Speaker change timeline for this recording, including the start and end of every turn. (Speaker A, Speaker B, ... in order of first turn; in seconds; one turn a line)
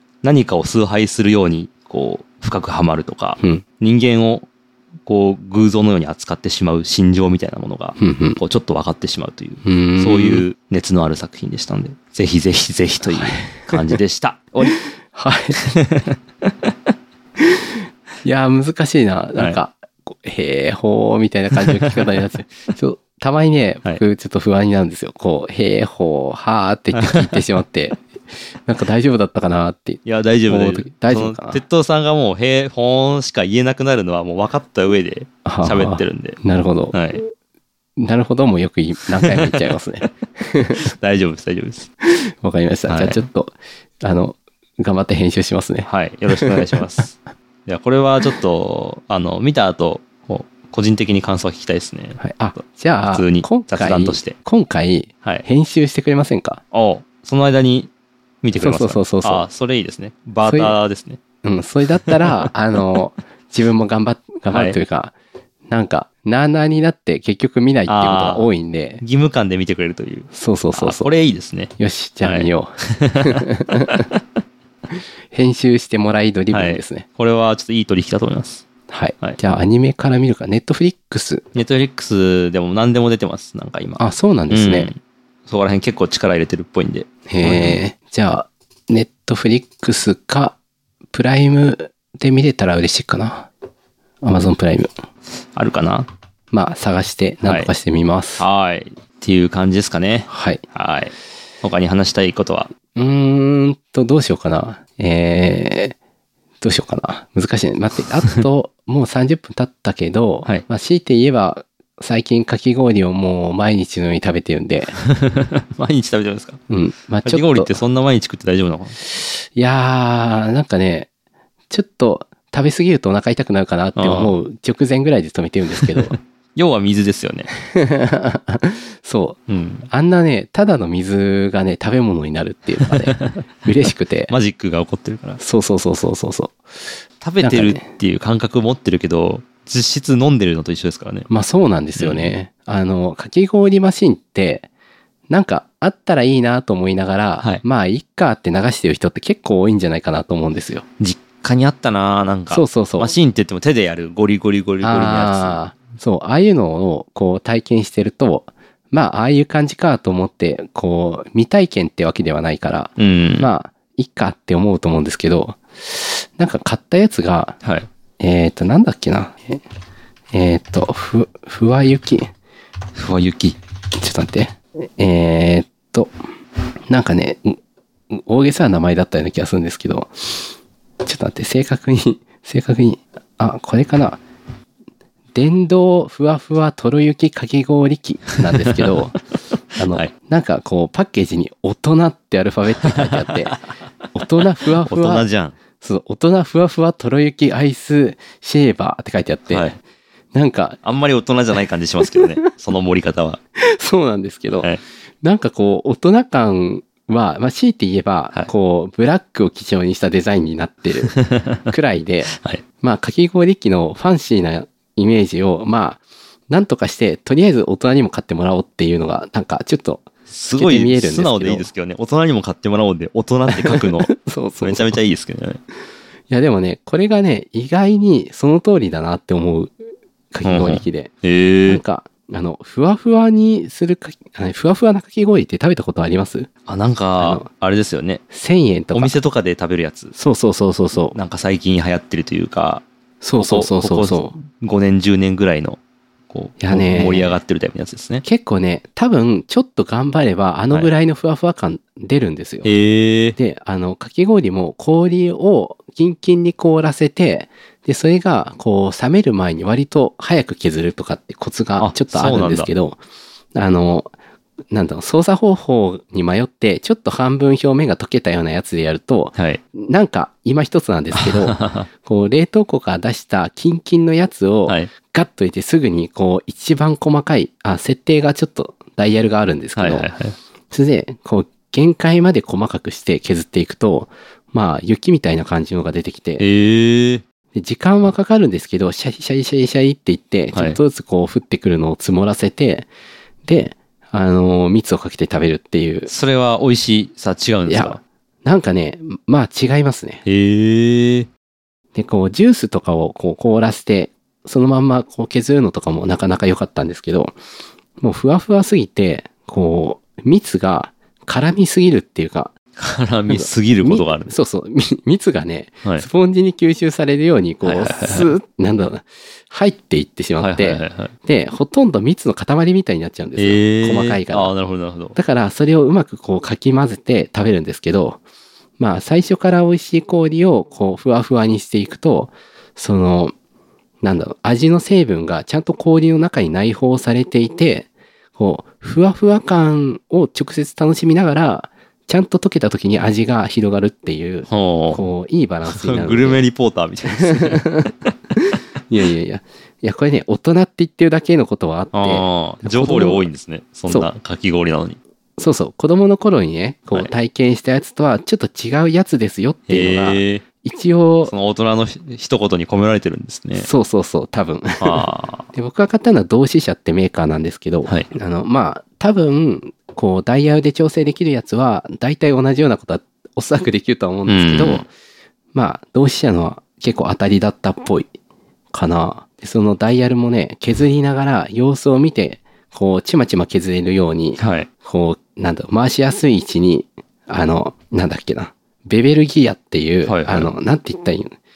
Speaker A: 0.2-4.5
Speaker A: 5.0-14.8
Speaker B: 8.0-8.4
Speaker B: 9.6-10.4
Speaker B: 13.1-13.9
Speaker B: 14.7-15.6
Speaker A: 15.6-16.7
Speaker B: 17.4-17.6
Speaker B: 18.2-28.1
Speaker A: 21.6-22.0
Speaker A: 26.9-27.4
Speaker B: 28.6-31.6
Speaker A: 30.0-36.4
Speaker B: 35.4-37.0
Speaker A: 36.9-37.2
Speaker B: 38.0-40.9
Speaker A: 39.2-40.1
Speaker A: 40.8-41.9
Speaker B: 42.0-46.6
Speaker A: 42.9-43.2
Speaker A: 45.9-54.4
Speaker B: 52.2-56.6
Speaker A: 56.7-57.9
Speaker A: 58.4-61.2
Speaker B: 58.6-59.4
Speaker B: 60.4-60.8
Speaker B: 61.4-65.1
Speaker A: 62.0-62.5
Speaker A: 64.5-64.8
Speaker B: 65.7-69.0
Speaker A: 67.9-68.5
Speaker A: 69.0-71.7
Speaker B: 70.3-71.1
Speaker B: 71.8-74.0
Speaker A: 72.2-74.2
Speaker B: 75.3-77.0
Speaker A: 76.5-78.7
Speaker B: 78.9-81.4
Speaker A: 81.5-87.8
Speaker B: 84.0-84.9
Speaker B: 87.3-90.5
Speaker B: 91.1-93.5
Speaker B: 94.2-94.9
Speaker A: 95.5-96.1
Speaker B: 96.5-98.5
Speaker A: 97.4-97.7
Speaker A: 98.4-102.7
Speaker B: 100.3-100.6
Speaker B: 102.9-106.0
Speaker B: 106.6-115.0
Speaker A: 115.0-116.6
Speaker B: 116.7-117.8
Speaker A: 117.2-119.0
Speaker B: 119.3-121.1
Speaker B: 121.7-126.1
Speaker A: 124.0-124.3
Speaker A: 125.8-127.5
Speaker B: 127.6-134.3
Speaker A: 129.5-129.9
Speaker A: 132.8-133.5
Speaker A: 134.3-135.4
Speaker B: 135.4-136.6
Speaker A: 137.2-141.3
Speaker B: 137.4-137.8
Speaker B: 141.3-144.7
Speaker A: 142.0-142.3
Speaker B: 145.3-150.8
Speaker A: 151.0-155.6
Speaker B: 152.5-153.1
Speaker B: 154.8-167.6
Speaker A: 163.0-163.5
Speaker A: 167.6-167.9
Speaker B: 168.2-169.6
Speaker B: 170.3-172.3
Speaker A: 172.9-173.6
Speaker B: 174.0-176.1
Speaker B: 176.9-177.6
Speaker B: 178.1-180.5
Speaker B: 181.0-184.2
Speaker B: 185.3-189.2
Speaker A: 188.6-188.9
Speaker B: 189.7-193.6
Speaker A: 189.8-190.1
Speaker A: 192.8-193.3
Speaker B: 194.1-195.2
Speaker A: 194.8-195.6
Speaker B: 195.8-199.7
Speaker A: 199.5-199.8
Speaker B: 200.3-200.8
Speaker A: 200.8-203.4
Speaker B: 202.0-202.3
Speaker B: 203.6-204.7
Speaker A: 204.5-204.8
Speaker B: 205.2-211.1
Speaker A: 211.0-211.7
Speaker B: 211.7-221.7
Speaker A: 212.3-212.6
Speaker A: 220.3-225.6
Speaker B: 223.5-225.0
Speaker B: 226.3-229.7
Speaker B: 230.3-231.1
Speaker A: 230.4-231.8
Speaker B: 231.7-236.5
Speaker A: 236.7-238.2
Speaker B: 237.2-237.4
Speaker B: 238.3-239.1
Speaker A: 238.9-240.1
Speaker B: 240.1-241.2
Speaker A: 241.1-242.8
Speaker B: 243.2-244.3
Speaker A: 243.4-248.2
Speaker B: 246.6-247.4
Speaker B: 248.2-252.7
Speaker A: 252.6-253.4
Speaker B: 253.4-263.0
Speaker A: 261.8-262.7
Speaker B: 263.5-264.1
Speaker B: 264.7-280.1
Speaker A: 269.4-269.6
Speaker A: 271.1-271.9
Speaker A: 274.7-274.9
Speaker A: 279.8-280.4
Speaker B: 280.7-286.4
Speaker A: 286.4-287.2
Speaker B: 287.5-292.9
Speaker A: 290.5-290.8
Speaker B: 293.4-296.1
Speaker A: 296.1-298.0
Speaker B: 297.7-300.2
Speaker A: 300.2-301.3
Speaker B: 301.9-307.3
Speaker B: 308.0-312.5
Speaker A: 312.8-314.3
Speaker B: 313.3-324.5
Speaker A: 317.6-318.3
Speaker A: 320.4-321.1
Speaker A: 323.4-325.2
Speaker B: 325.1-328.2
Speaker B: 328.8-333.3
Speaker B: 334.0-346.4
Speaker A: 344.5-345.0
Speaker A: 345.7-348.1
Speaker B: 347.1-353.3
Speaker A: 351.9-355.0
Speaker B: 355.4-361.3
Speaker A: 359.7-360.4
Speaker A: 361.2-363.7
Speaker B: 363.6-374.9
Speaker A: 364.8-365.5
Speaker A: 374.3-374.9
Speaker B: 375.5-378.1
Speaker B: 378.7-391.3
Speaker A: 384.4-384.7
Speaker A: 390.0-390.5